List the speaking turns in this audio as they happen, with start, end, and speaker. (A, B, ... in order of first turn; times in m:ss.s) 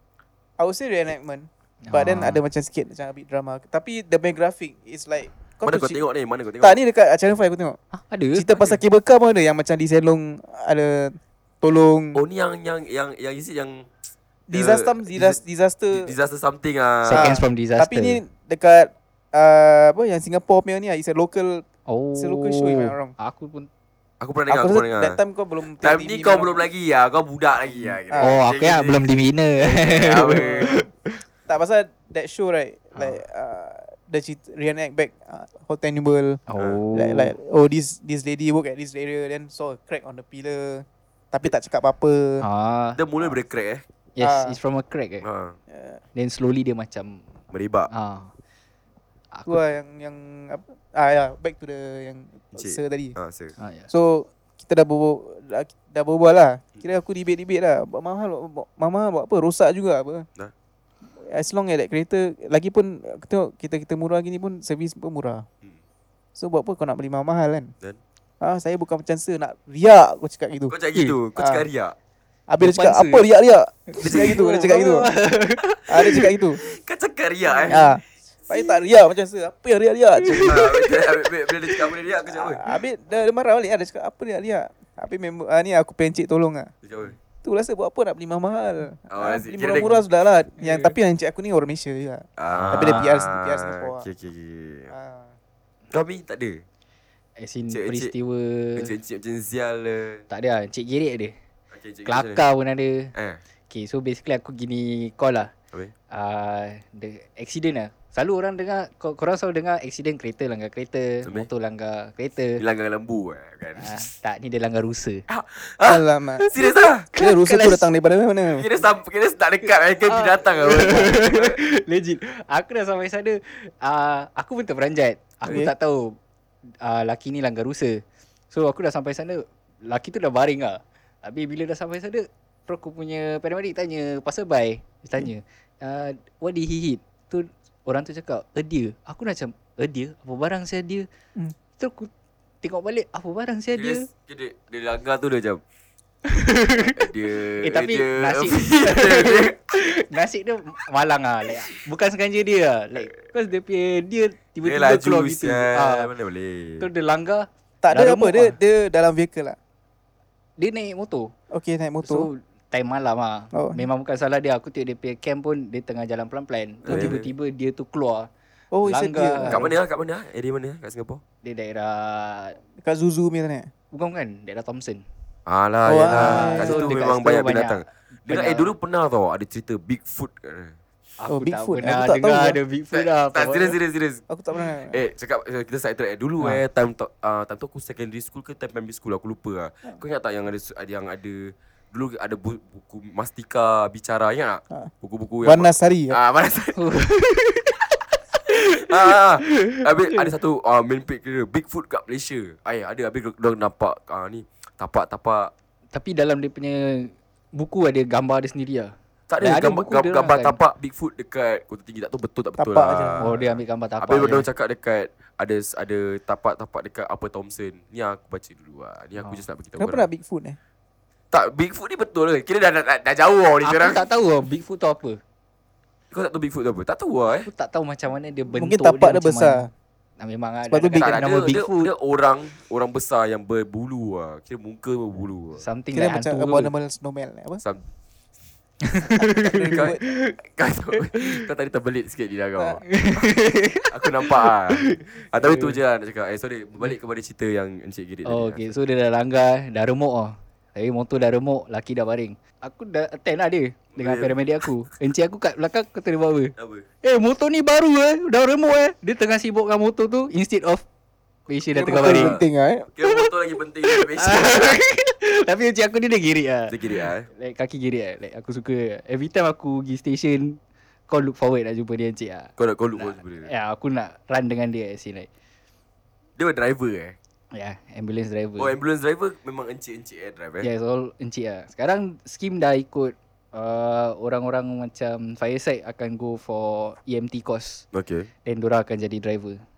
0:00.6-0:06.0 A
0:01.8-0:02.4 B
0:05.6-0:06.8 C
0:06.6-0:07.8 A
0:07.9-0:08.8 B
0:08.3-0:12.2 A
0:12.1-0:13.9 C
0:14.5-0:16.1 A
0:14.5-0:15.4 C
0:15.9-0:17.4 C
0:17.0-0:18.2 B
0:17.1-0:21.6 A
0:21.9-0:23.7 B
0:22.2-0:23.1 A
0:24.2-0:25.2 C
0:24.5-0:26.7 A
0:25.8-0:29.1 C
0:28.1-0:28.4 A
0:28.2-0:31.2 B
0:29.6-0:30.8 C
0:30.2-0:30.7 A
0:31.5-0:36.4 A
0:32.9-0:33.2 B
0:36.5-0:37.3 B
0:36.9-0:42.4 A
0:42.4-0:43.0 B
0:43.0-0:43.8 C
0:44.2-0:45.2 B
0:44.2-0:44.6 A
0:45.2-0:45.6 C
0:45.7-0:46.0 A
0:46.1-0:47.2 B
0:47.5-0:47.9 C
0:47.9-0:48.3 B
0:49.3-0:49.6 B
0:49.5-0:53.2 A
0:52.5-0:53.5 C
0:53.6-0:53.9 B
0:53.9-1:00.3 A
1:01.2-1:05.4 A
1:06.4-1:07.7 A
1:08.4-1:10.8 A
1:10.7-1:11.9 C
1:11.4-1:11.6 A
1:12.5-1:15.1 A
1:12.6-1:13.3 B
1:13.9-1:16.3 B
1:14.0-1:14.4 C
1:15.9-1:16.6 A
1:16.6-1:17.9 C
1:17.5-1:17.8 B
1:17.7-1:20.8 A
1:20.2-1:20.7 B
1:20.4-1:22.6 C
1:22.2-1:26.7 A
1:26.8-1:27.2 C
1:27.4-1:34.1 A
1:29.1-1:30.0 C
1:30.6-1:30.9 B
1:32.4-1:34.9 C
1:32.5-1:33.1 B
1:34.9-1:35.3 A
1:35.9-1:36.6 C
1:37.4-1:38.9 B
1:37.7-1:38.1 C
1:38.8-1:40.2 C
1:40.3-1:41.3 B
1:41.7-1:42.4 C
1:42.0-1:43.1 B
1:43.1-1:43.4 C
1:43.7-1:45.5 B
1:46.1-1:52.6 B
1:52.6-1:54.0 C
1:53.8-1:55.2 B
1:55.3-1:57.1 C
1:55.8-1:56.5 A
1:57.1-1:57.9 B
1:57.2-1:58.6 A
1:58.5-2:01.6 C
2:00.0-2:06.2 B
2:05.4-2:05.7 A
2:06.8-2:21.1 B
2:21.8-2:22.1 B
2:22.6-2:24.1 B
2:23.8-2:25.6 C
2:26.3-2:27.0 B
2:26.9-2:29.6 C
2:27.6-2:36.1 B
2:34.6-2:36.9 C
2:36.8-2:38.5 B
2:37.8-2:39.6 A
2:40.6-2:41.3 B
2:41.5-2:42.3 A
2:42.0-2:48.3 B
2:43.5-2:43.8 A
2:46.8-2:47.3 C
2:46.9-2:47.1 A
2:48.7-2:49.7 A
2:48.8-2:49.6 B
2:49.4-2:51.2 C
2:51.4-2:52.6 B
2:52.8-2:53.7 A
2:53.9-2:55.0 B
2:55.5-3:00.8 C
2:55.8-2:57.0 A
2:56.1-2:58.7 B
3:01.2-3:03.8 B
3:01.3-3:02.6 A
3:02.9-3:04.2 C
3:04.3-3:05.0 A
3:04.9-3:16.8 C
3:15.4-3:16.2 A
3:16.8-3:19.8 B
3:18.7-3:25.5 C
3:25.9-3:30.6 B
3:29.3-3:40.1 C
3:32.6-3:33.3 A
3:33.2-3:34.5 B
3:39.8-3:40.6 A
3:41.3-3:44.0 C
3:43.6-3:45.2 B
3:46.1-3:47.5 C
3:47.3-3:49.6 B
3:48.5-3:49.7 A
3:50.2-3:51.9 B
3:50.7-3:51.1 A
3:50.9-3:55.6 C
3:55.6-3:56.7 B
3:55.9-3:57.6 A
3:58.8-4:00.4 B
3:59.2-4:00.1 A
3:59.6-4:03.2 C
4:01.1-4:01.4 B
4:02.8-4:05.8 B
4:03.9-4:08.7 C
4:08.2-4:20.8 B
4:13.9-4:14.6 C
4:16.6-4:16.8 C
4:21.5-4:22.4 B
4:21.7-4:22.9 A
4:21.9-4:22.4 C
4:23.0-4:24.8 C
4:23.8-4:35.3 B
4:26.7-4:27.3 C
4:32.6-4:33.5 C
4:36.4-4:37.2 C
4:37.5-4:38.7 B
4:38.6-4:40.7 C
4:40.6-4:47.8 B
4:47.9-4:48.3 C
4:48.4-4:49.6 B